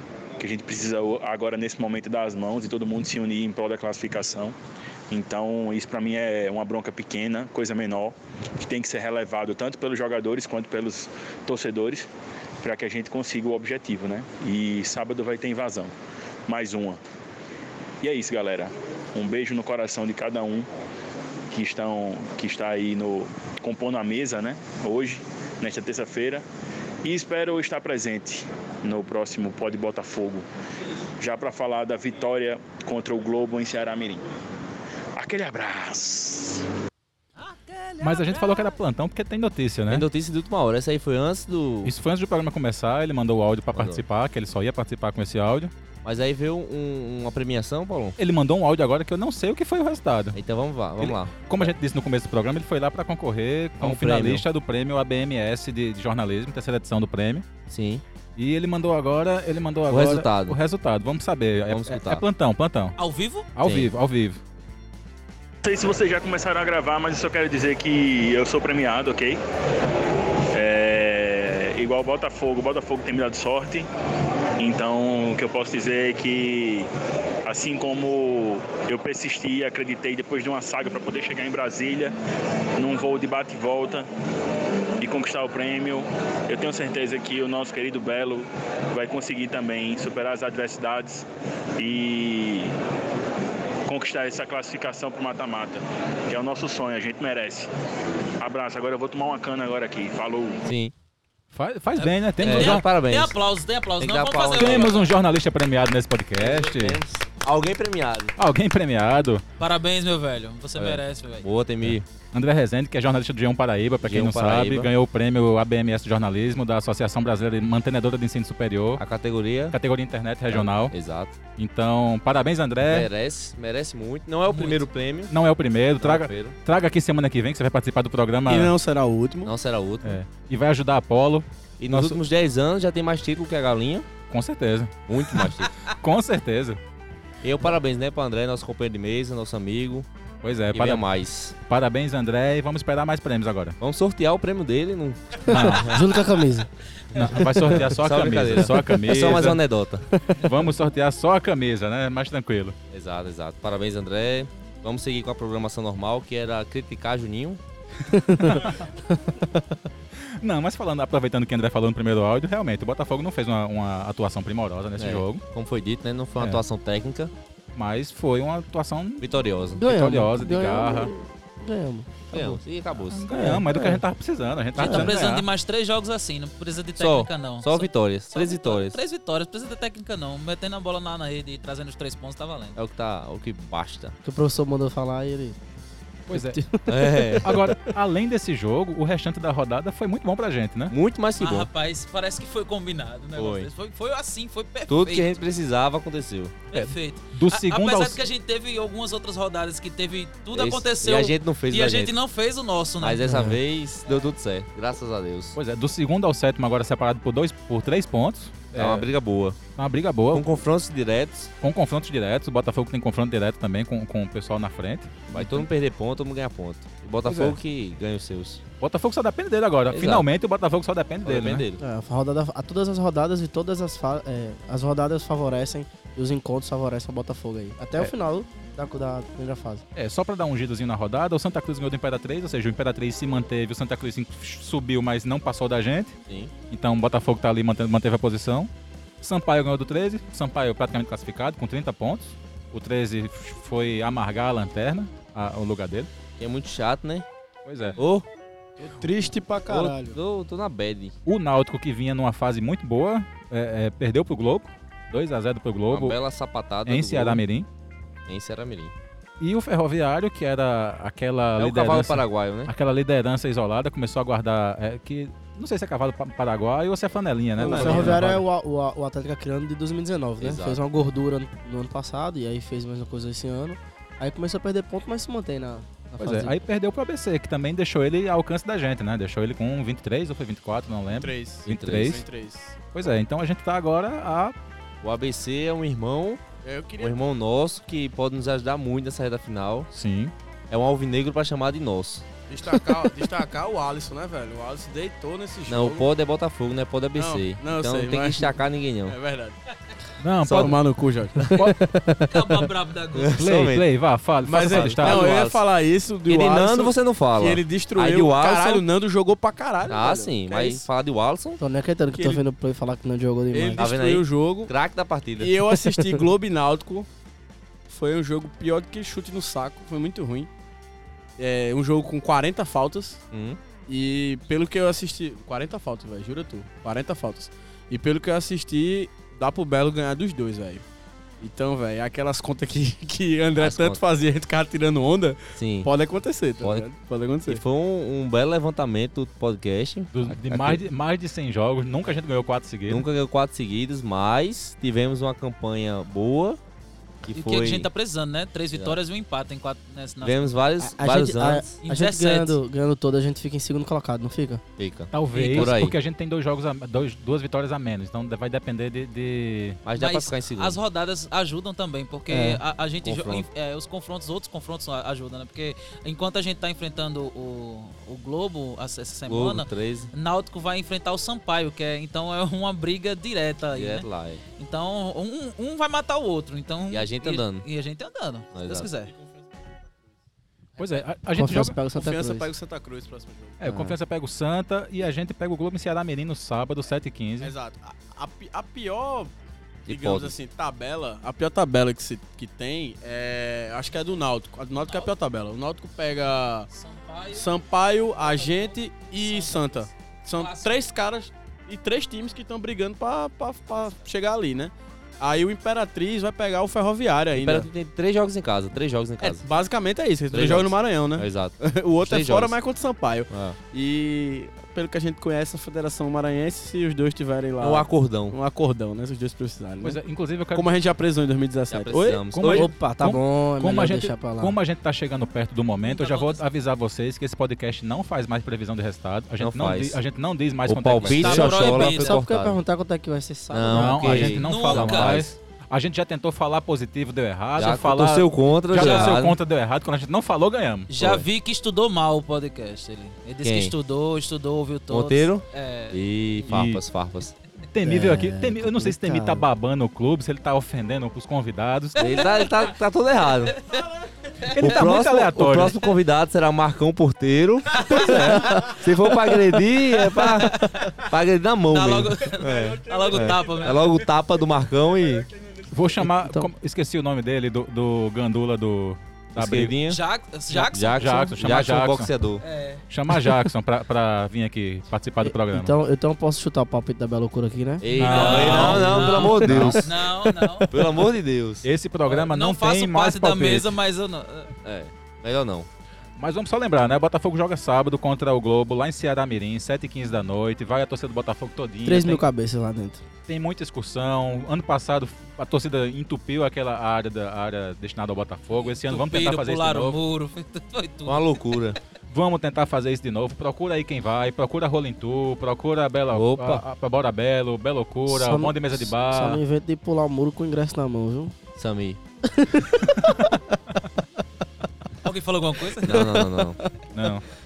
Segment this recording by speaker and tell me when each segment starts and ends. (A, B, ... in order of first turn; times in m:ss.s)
0:00.4-0:04.5 A
0:05.1-0:12.1 A
0:12.6-0:15.9 A
0:16.5-0:17.0 A
0:18.0-0:20.7 A
0:21.5-0:26.4 A
0:27.0-0:30.5 A
0:31.2-0:34.2 A
0:35.2-0:36.6 A
0:37.4-0:38.6 B
0:38.0-0:40.0 C
0:39.9-0:41.9 D
0:41.8-0:45.7 C
0:43.7-0:44.0 D
0:46.0-0:48.2 D
0:48.2-0:50.4 C
0:50.3-0:51.7 D
0:51.0-0:57.4 C
0:53.8-0:54.4 D
0:57.7-0:58.0 D
0:58.4-1:03.0 C
0:59.9-1:00.6 D
1:01.7-1:02.2 D
1:03.0-1:03.5 B
1:03.6-1:04.4 C
1:03.6-1:03.9 D
1:05.6-1:09.4 A
1:10.5-1:13.9 A
1:14.6-1:16.9 A
1:17.4-1:22.1 A
1:22.8-1:24.1 A
1:25.0-1:31.3 A
1:31.8-1:32.7 A
1:33.8-1:37.7 A
1:38.4-1:40.6 A
1:40.6-1:40.9 D
1:41.5-1:42.9 C
1:42.0-1:45.1 B
1:42.4-1:43.4 D
1:44.0-1:45.0 D
1:44.6-1:47.0 C
1:46.4-1:48.3 D
1:48.4-1:49.4 C
1:49.6-1:51.5 B
1:50.8-1:52.0 D
1:51.8-1:59.0 C
1:54.0-1:54.9 D
1:59.0-1:59.8 D
1:59.7-2:00.9 C
2:00.5-2:01.4 D
2:01.6-2:03.1 C
2:02.9-2:05.3 D
2:04.5-2:04.8 B
2:05.3-2:08.7 C
2:06.0-2:06.6 D
2:08.4-2:09.5 E
2:09.4-2:10.2 D
2:10.0-2:12.2 C
2:11.8-2:14.1 D
2:14.3-2:15.0 C
2:15.1-2:15.7 D
2:16.0-2:16.8 C
2:17.4-2:20.1 D
2:20.4-2:21.0 C
2:20.7-2:21.6 D
2:21.6-2:23.8 C
2:23.8-2:26.0 D
2:25.5-2:26.0 C
2:25.5-2:26.7 F
2:27.1-2:29.6 C
2:27.7-2:30.0 D
2:30.1-2:30.4 F
2:30.4-2:32.8 C
2:32.9-2:37.6 D
2:38.1-2:39.8 F
2:40.4-2:45.4 C
2:45.0-2:47.3 D
2:47.7-2:49.3 C
2:49.2-2:49.8 D
2:49.8-2:52.6 F
2:49.8-2:51.1 C
2:52.3-2:53.5 D
2:53.1-2:55.5 C
2:53.3-2:54.0 F
2:54.8-2:55.1 F
2:54.8-3:02.8 B
2:54.8-2:55.1 D
2:57.0-2:59.0 D
3:02.8-3:04.2 D
3:04.2-3:05.6 F
3:06.3-3:06.6 C
3:06.3-3:07.6 F
3:06.9-3:07.6 D
3:07.4-3:10.9 C
3:10.9-3:11.7 D
3:11.4-3:15.4 B
3:13.4-3:13.7 D
3:14.9-3:16.6 D
3:16.7-3:23.4 B
3:16.7-3:18.2 C
3:20.5-3:22.1 D
3:23.0-3:25.6 D
3:24.0-3:24.3 B
3:25.6-3:29.1 C
3:28.7-3:29.6 D
3:29.8-3:30.4 C
3:30.3-3:31.5 D
3:31.6-3:35.6 C
3:35.3-3:38.6 D
3:37.2-3:37.6 C
3:38.8-3:41.6 C
3:39.9-3:40.2 D
3:41.2-3:41.8 D
3:41.8-3:49.8 F
3:49.9-3:56.2 C
3:56.7-3:58.7 C
3:59.2-4:06.1 C
4:06.4-4:07.2 D
4:07.6-4:08.0 C
4:08.0-4:08.2 D
4:08.8-4:10.2 E
4:09.7-4:11.1 D
4:11.2-4:16.2 C
4:15.9-4:17.4 D
4:16.8-4:17.7 C
4:18.3-4:18.9 D
4:19.4-4:28.4 C
4:21.6-4:22.7 D
4:27.6-4:28.2 E
4:27.6-4:36.6 F
4:30.4-4:30.8 D
4:36.2-4:42.2 C
4:41.1-4:42.8 E
4:41.6-4:42.2 D
4:42.9-4:44.5 C
4:45.0-4:46.4 D
4:46.6-4:47.1 E
4:47.0-4:49.9 D
4:49.9-4:50.3 C
4:50.7-4:52.2 D
4:52.5-4:56.1 E
4:55.7-4:59.2 D
4:57.1-4:59.6 E
5:00.2-5:00.8 C
5:00.4-5:00.7 D
5:00.4-5:01.6 E
5:01.5-5:02.5 F
5:02.3-5:03.4 B
5:03.1-5:03.8 D
5:03.3-5:05.3 C
5:04.4-5:10.8 E
5:04.6-5:05.6 D
5:06.3-5:08.8 D
5:09.9-5:11.6 D
5:11.6-5:13.8 F
5:12.1-5:12.4 E
5:13.5-5:14.7 E
5:13.8-5:15.6 D
5:15.4-5:17.1 E
5:17.9-5:20.5 E
5:21.4-5:23.2 E
5:23.3-5:23.6 D
5:23.9-5:30.8 E
5:31.4-5:37.6 E
5:33.6-5:34.0 D
5:35.5-5:35.9 D
5:36.6-5:36.9 D
5:37.5-5:40.8 D
5:40.1-5:43.0 C
5:42.9-5:46.6 D
5:47.2-5:47.9 D
5:47.3-5:50.5 B
5:50.2-5:51.7 D
5:50.8-5:54.6 F
5:51.8-5:52.6 B
5:54.8-5:55.9 D
5:55.1-5:59.8 C
5:55.3-5:55.7 B
5:59.8-6:00.8 D
5:59.9-6:14.1 B
6:02.3-6:02.6 F
6:03.0-6:03.4 D
6:09.3-6:10.1 D
6:13.7-6:14.4 D
6:14.6-6:19.1 B
6:16.9-6:17.7 D
6:18.5-6:18.9 D
6:19.1-6:19.4 E
6:20.8-6:21.8 C
6:21.3-6:22.5 F
6:21.9-6:23.6 E
6:23.6-6:27.5 C
6:23.6-6:23.9 F
6:27.4-6:29.3 E
6:29.8-6:30.3 D
6:29.9-6:36.7 E
6:34.8-6:35.1 B
6:36.7-6:37.5 B
6:37.3-6:47.7 E
6:38.2-6:40.8 B
6:47.3-6:49.5 D
6:49.2-7:00.0 E
6:50.3-6:52.6 D
6:53.3-6:53.6 D
6:57.6-6:58.4 D
6:59.8-7:00.7 C
7:00.5-7:02.6 E
7:01.7-7:02.7 D
7:02.3-7:11.7 C
7:02.4-7:04.5 F
7:05.8-7:06.4 B
7:09.4-7:10.0 D
7:10.6-7:12.6 D
7:11.1-7:12.2 B
7:11.4-7:14.4 F
7:13.5-7:15.4 D
7:13.7-7:20.9 C
7:14.4-7:15.2 B
7:17.6-7:19.4 D
7:18.8-7:19.1 B
7:20.9-7:26.5 B
7:21.0-7:21.2 D
7:23.4-7:23.7 D
7:24.9-7:27.3 D
7:26.4-7:26.8 C
7:27.7-7:32.2 C
7:27.8-7:29.4 F
7:32.0-7:32.7 B
7:32.0-7:33.6 D
7:33.3-7:33.8 B
7:34.4-7:34.8 B
7:34.6-7:45.3 D
7:34.6-7:35.8 C
7:37.7-7:38.4 B
7:38.0-7:38.8 F
7:40.2-7:41.0 B
7:41.7-7:43.9 B
7:42.4-7:43.9 E
7:45.3-7:45.7 E
7:45.7-7:49.8 C
7:49.4-7:50.0 D
7:49.8-7:51.1 B
7:50.7-7:52.4 D
7:50.9-7:52.1 C
7:52.4-7:52.8 B
7:52.9-7:55.7 C
7:55.2-7:57.8 F
7:57.8-7:59.9 D
7:57.9-8:00.0 C
7:58.0-8:00.7 B
8:00.3-8:00.9 F
8:00.7-8:01.6 D
8:01.6-8:03.8 C
8:02.1-8:04.5 B
8:04.6-8:05.7 D
8:06.2-8:12.2 C
8:11.8-8:13.0 F
8:13.3-8:20.0 C
8:18.5-8:21.4 B
8:21.0-8:21.8 D
8:22.1-8:29.4 C
8:26.1-8:26.6 D
8:28.1-8:31.3 F
8:31.6-8:32.0 D
8:32.3-8:33.6 F
8:35.0-8:36.2 B
8:35.8-8:36.6 D
8:36.9-8:37.2 C